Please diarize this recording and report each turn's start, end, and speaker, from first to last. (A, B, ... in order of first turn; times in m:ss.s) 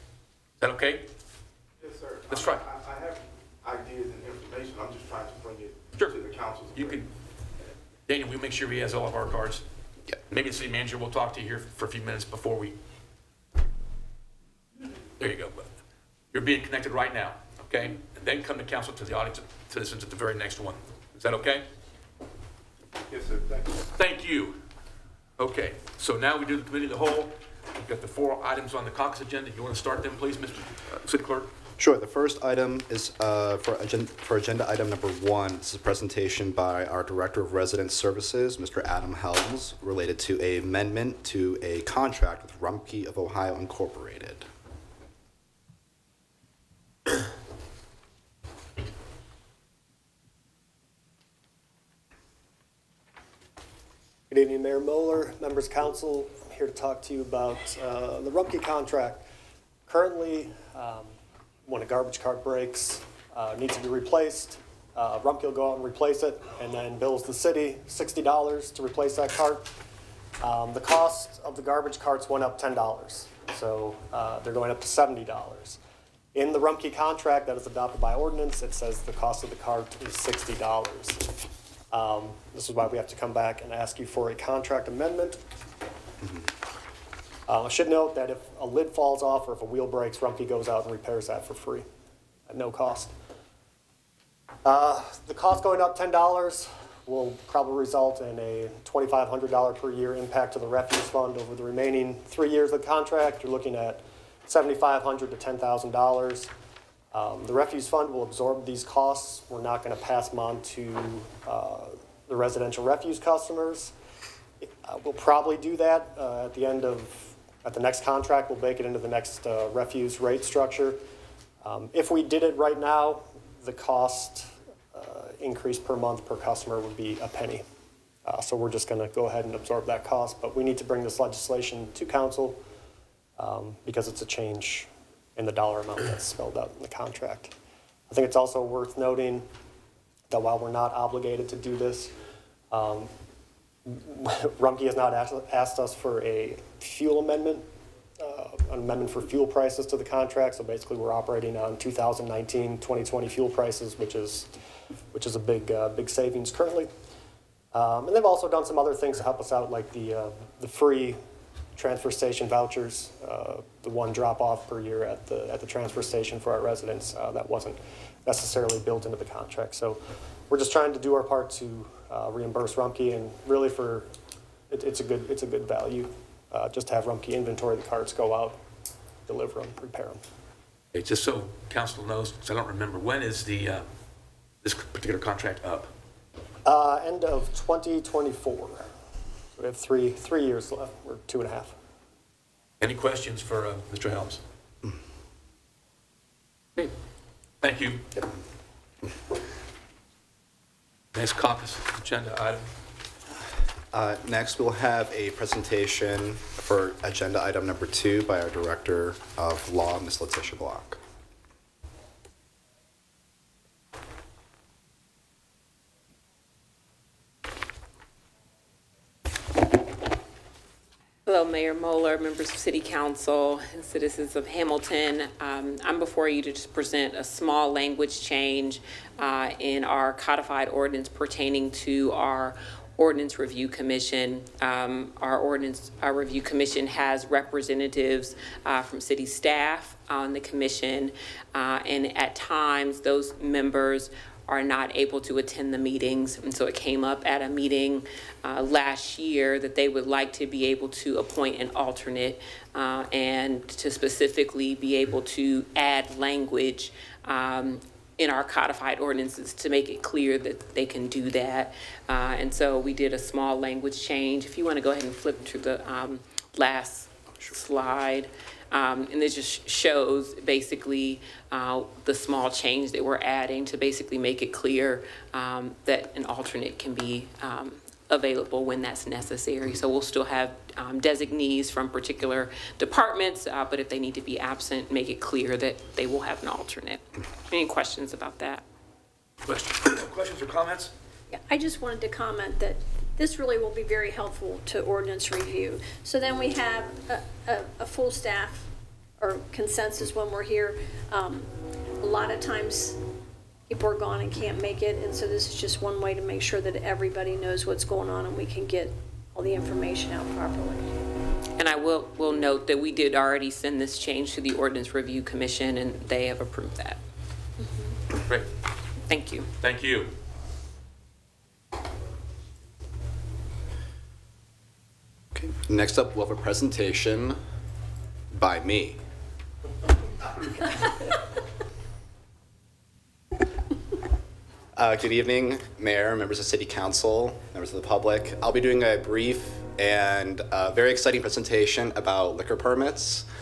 0:00.6-0:01.1 A
0:01.8-0:07.0 B
0:02.3-0:02.6 A
0:06.7-0:07.1 A
0:08.1-0:09.6 A
0:10.3-0:12.8 A
0:15.2-0:15.7 A
0:16.3-0:21.7 A
0:23.1-0:23.9 B
0:24.0-0:24.6 A
0:25.4-0:31.5 A
0:31.8-0:44.5 C
0:54.3-0:59.2 D
0:59.9-1:01.1 D
1:01.7-1:09.7 D
1:10.4-1:15.8 D
1:16.3-1:21.2 D
1:21.9-1:25.4 D
1:27.5-1:31.9 D
1:32.5-1:33.1 D
1:34.6-1:46.5 D
1:47.1-1:53.9 D
1:54.6-2:01.0 D
2:01.6-2:07.6 D
2:08.2-2:12.6 D
2:13.4-2:17.5 D
2:18.1-2:19.5 D
2:20.3-2:22.1 D
2:22.7-2:23.1 D
2:23.9-2:27.7 D
2:28.2-2:34.5 D
2:35.1-2:36.9 D
2:37.7-2:41.2 D
2:41.8-2:54.1 D
2:54.7-2:58.6 D
2:59.3-3:00.2 D
3:00.9-3:03.9 A
3:04.6-3:05.9 A
3:06.6-3:08.9 D
3:09.6-3:11.8 D
3:12.8-3:14.4 A
3:17.6-3:18.1 A
3:21.1-3:22.7 A
3:23.9-3:31.0 C
3:41.3-4:48.6 E
4:49.4-4:50.9 A
4:51.3-4:58.7 F
4:59.2-5:03.0 F
5:03.7-5:10.9 F
5:11.6-5:17.0 E
5:17.6-5:18.0 F
5:19.1-5:19.5 E
5:19.6-5:20.1 A
5:25.3-5:27.4 C
5:28.3-5:29.0 C
5:34.8-5:43.3 C